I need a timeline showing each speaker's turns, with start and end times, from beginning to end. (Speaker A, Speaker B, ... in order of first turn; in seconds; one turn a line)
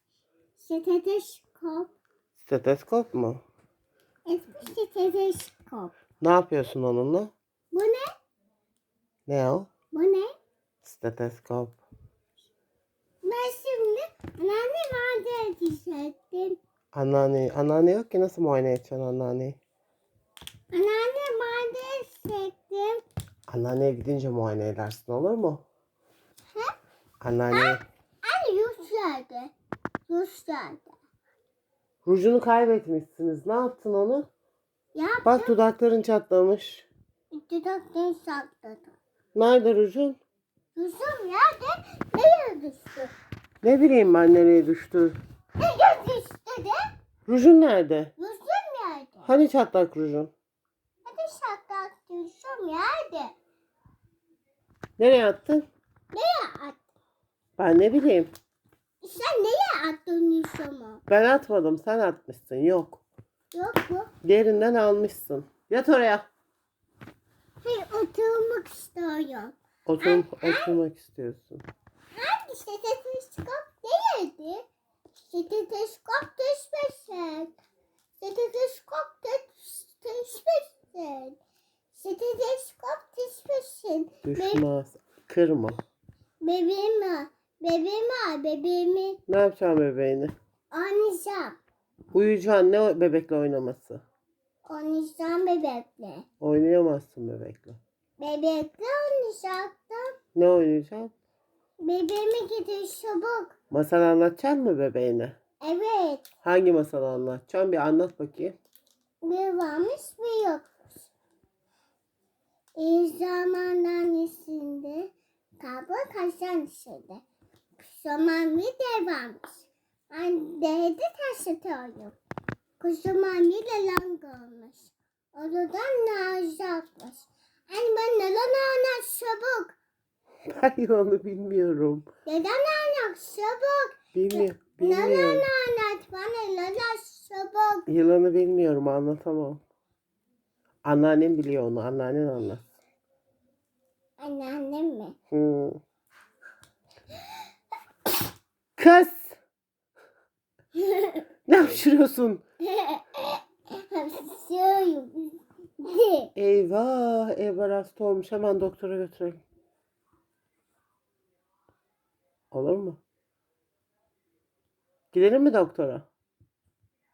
Speaker A: 0.6-1.9
Speaker B: 2.4-3.4
Speaker A: 4.3-5.9
Speaker B: 6.2-7.3
Speaker A: 7.7-8.1
Speaker B: 9.3-9.7
Speaker A: 9.9-10.3
Speaker B: 10.8-11.8
Speaker A: 13.2-16.6
Speaker B: 16.9-19.6
Speaker A: 20.7-23.0
Speaker B: 23.5-25.6
Speaker B: 27.2-27.8
Speaker A: 27.5-29.5
Speaker A: 30.1-31.0
Speaker B: 32.0-34.3
Speaker A: 35.0-35.5
Speaker B: 35.2-36.9
Speaker A: 37.3-39.0
Speaker B: 39.4-40.2
Speaker A: 40.8-43.1
Speaker B: 43.6-45.2
Speaker A: 45.6-46.8
Speaker B: 47.3-48.1
Speaker A: 48.2-49.3
Speaker B: 49.2-50.3
Speaker A: 51.1-53.3
Speaker B: 55.0-55.7
Speaker A: 56.1-56.8
Speaker B: 57.6-58.3
Speaker A: 59.0-61.0
Speaker B: 61.1-63.0
Speaker A: 63.5-64.1
Speaker B: 64.2-66.3
Speaker A: 67.6-70.8
Speaker B: 69.9-71.6
Speaker A: 72.1-77.5
Speaker A: 78.2-81.4
Speaker A: 81.9-84.6
Speaker B: 84.2-85.8
Speaker A: 86.4-89.2
Speaker B: 89.3-90.3
Speaker A: 90.7-91.6
Speaker B: 92.1-94.0
Speaker A: 94.7-96.3
Speaker B: 96.4-97.8
Speaker A: 98.2-100.2
Speaker B: 100.3-101.1
Speaker A: 101.8-103.5
Speaker B: 103.7-105.4
Speaker A: 105.6-106.3
Speaker B: 106.4-108.6
Speaker A: 109.2-111.1
Speaker A: 112.8-117.2
Speaker A: 117.8-122.2
Speaker A: 122.8-129.8
Speaker B: 130.5-132.1
Speaker A: 132.3-137.9
Speaker B: 134.1-135.5
Speaker B: 137.9-139.6
Speaker B: 140.8-142.7
Speaker A: 144.2-145.2
Speaker B: 145.3-145.8
Speaker B: 148.8-149.4
Speaker A: 150.8-151.2
Speaker B: 151.5-152.4
Speaker A: 152.7-156.3
Speaker B: 156.4-159.4
Speaker B: 162.5-163.0
Speaker B: 165.1-166.1